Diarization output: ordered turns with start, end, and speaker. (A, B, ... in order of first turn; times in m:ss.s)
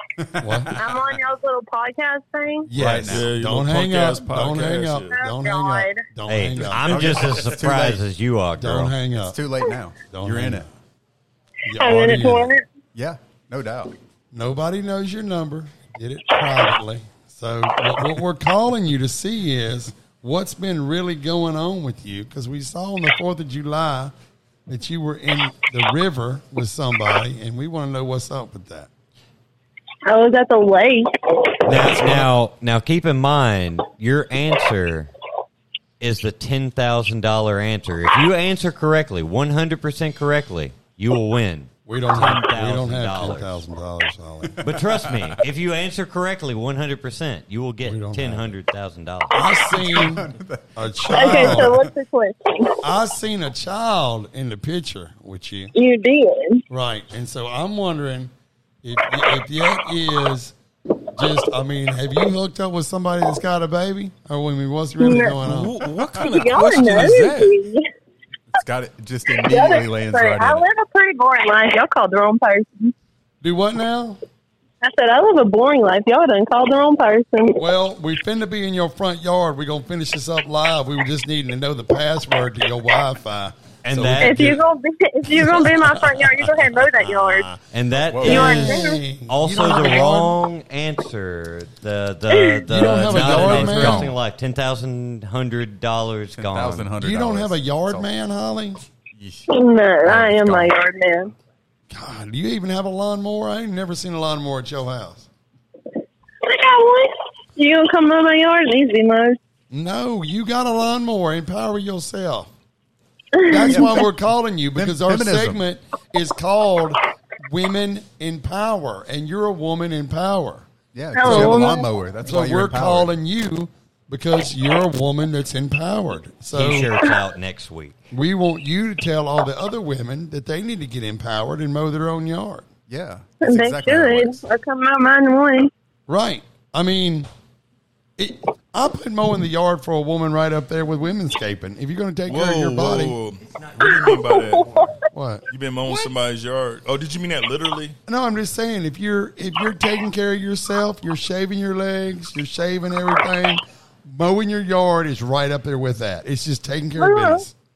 0:00.2-0:01.0 A
0:00.4-0:00.8 B
0:00.8-0:02.7 C
0:02.7-0:07.4 B
0:02.7-0:03.3 A
0:02.9-0:05.2 D
0:05.1-0:06.0 C
0:06.3-0:08.9 E
0:06.8-0:08.0 A
0:08.6-0:09.4 B
0:09.2-0:10.6 A
0:10.1-0:10.7 B
0:11.6-0:12.5 B
0:11.8-0:12.6 C
0:12.9-0:13.9 A
0:14.3-0:24.1 B
0:24.7-0:28.9 B
0:30.0-0:31.5 C
0:31.6-0:32.3 B
0:31.6-0:35.1 E
0:36.0-0:43.6 E
0:41.8-0:44.8 B
0:44.6-0:45.4 A
0:44.6-0:49.4 E
0:47.8-0:48.5 B
0:49.3-0:51.8 B
0:49.7-0:51.9 A
0:51.1-0:52.8 C
0:52.8-0:55.7 B
0:55.7-0:56.6 C
0:56.7-0:58.3 B
0:58.8-1:00.5 B
1:01.1-1:05.8 B
1:05.0-1:05.4 C
1:05.4-1:07.6 D
1:06.2-1:07.9 C
1:08.5-1:10.6 A
1:09.4-1:12.9 C
1:13.4-1:14.2 B
1:14.8-1:17.6 C
1:17.6-1:24.6 B
1:23.8-1:24.5 E
1:24.2-1:27.5 C
1:25.3-1:27.6 B
1:27.7-1:36.9 E
1:28.0-1:28.5 A
1:28.2-1:30.4 B
1:28.2-1:29.0 C
1:32.3-1:32.6 C
1:32.7-1:34.1 B
1:32.8-1:34.1 A
1:36.3-1:38.1 A
1:37.0-1:38.8 B
1:39.1-1:39.5 A
1:39.5-1:41.3 C
1:40.1-1:40.6 A
1:40.2-1:40.7 B
1:41.9-1:45.3 B
1:46.4-1:49.4 C
1:49.7-1:52.5 B
1:53.4-1:54.1 C
1:53.4-2:06.9 B
1:54.7-1:55.6 A
2:00.9-2:03.2 A
2:01.1-2:01.9 C
2:06.5-2:08.0 E
2:08.1-2:12.6 B
2:12.9-2:14.4 A
2:13.4-2:15.7 C
2:16.1-2:17.3 B
2:18.2-2:23.2 B
2:22.3-2:24.9 D
2:23.5-2:23.9 E
2:23.8-2:24.9 C
2:25.1-2:26.1 B
2:25.5-2:28.0 D
2:28.1-2:37.5 B
2:37.0-2:37.4 C